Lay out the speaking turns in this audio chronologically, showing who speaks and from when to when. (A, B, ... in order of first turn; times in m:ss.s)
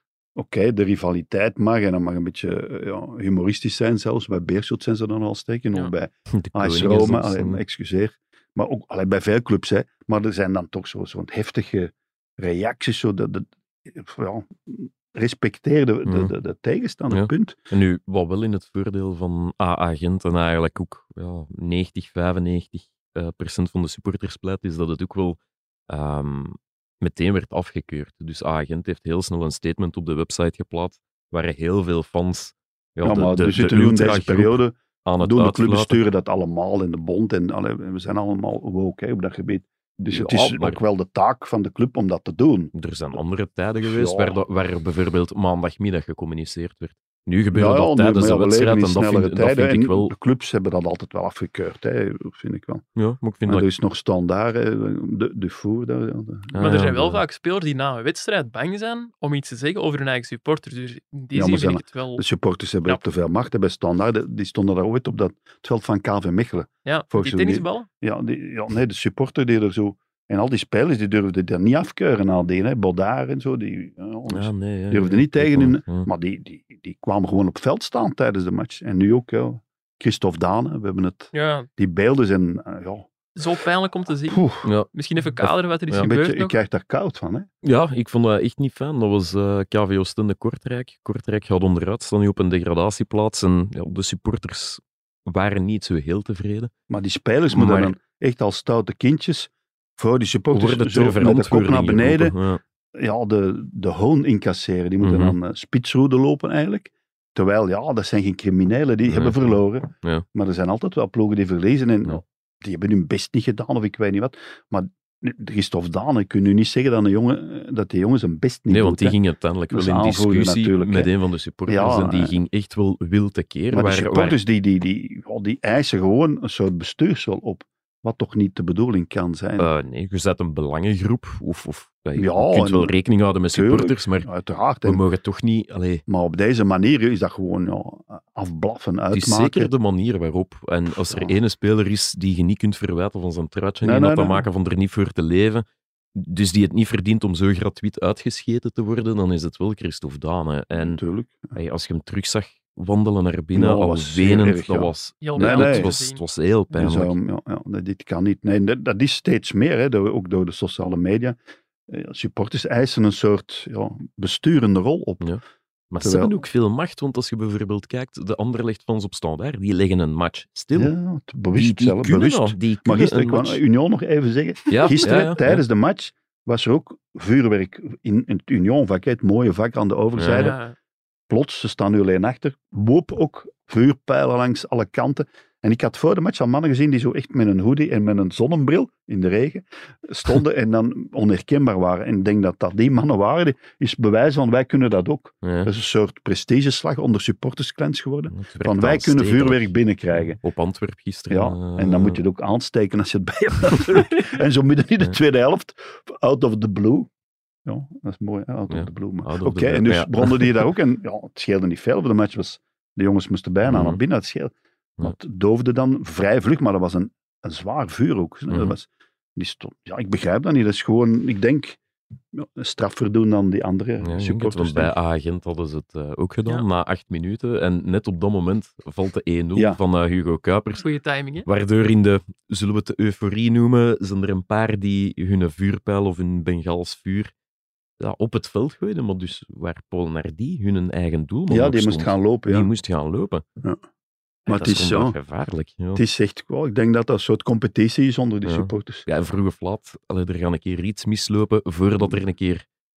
0:00.3-0:17.6 A
0:06.3-0:07.6 B
0:16.0-0:16.3 B
0:17.1-0:36.0 B
0:33.0-0:42.7 A
0:40.0-0:40.8 B
0:42.7-0:50.1 B
0:43.8-0:44.4 A
0:47.5-0:52.8 A
0:53.0-0:53.7 B
0:53.4-0:56.6 A
0:56.5-0:57.2 B
0:56.6-1:02.2 C
1:01.3-1:23.1 A
1:06.8-1:07.9 C
1:14.3-1:16.1 B
1:21.3-1:21.7 C
1:23.4-1:26.6 C
1:24.3-1:24.7 A
1:24.6-1:24.9 B
1:25.4-1:26.1 B
1:26.0-1:27.5 A
1:27.6-1:36.7 B
1:36.9-1:42.3 A
1:37.5-1:37.9 B
1:40.5-1:42.6 B
1:42.9-1:59.2 A
1:45.0-1:45.4 B
1:49.1-1:50.2 B
1:58.7-2:04.4 B
1:59.7-2:01.1 A
2:01.7-2:02.4 A
2:03.7-2:09.7 A
2:09.6-2:14.3 B
2:12.2-2:12.9 A
2:13.5-2:15.0 A
2:14.8-2:16.0 B
2:16.1-2:19.7 A
2:19.1-2:31.0 B
2:21.1-2:21.4 A
2:23.8-2:24.5 A
2:30.8-2:31.5 A
2:31.5-2:37.1 B
2:33.5-2:35.9 A
2:35.2-2:36.2 C
2:36.7-2:41.4 A
2:41.9-2:45.2 A
2:45.2-2:50.9 B
2:46.0-2:46.3 A
2:50.7-3:00.6 A
2:51.5-2:53.6 B
2:54.7-2:55.6 B
2:55.0-2:55.3 C
3:00.2-3:00.5 B
3:00.3-3:00.7 C
3:01.3-3:20.4 A
3:15.4-3:15.7 B
3:18.3-3:22.2 B
3:21.3-3:27.1 A
3:27.6-3:41.8 A
3:28.7-3:30.6 B
3:33.6-3:34.0 B
3:38.5-3:38.8 B
3:42.3-3:45.0 A
3:44.0-3:50.8 B
3:50.8-3:51.5 C
3:51.4-3:57.3 B
3:58.0-4:03.4 B
4:01.5-4:02.7 A
4:04.5-4:05.2 A
4:04.5-4:06.0 B
4:05.9-4:09.1 A
4:08.4-4:12.6 B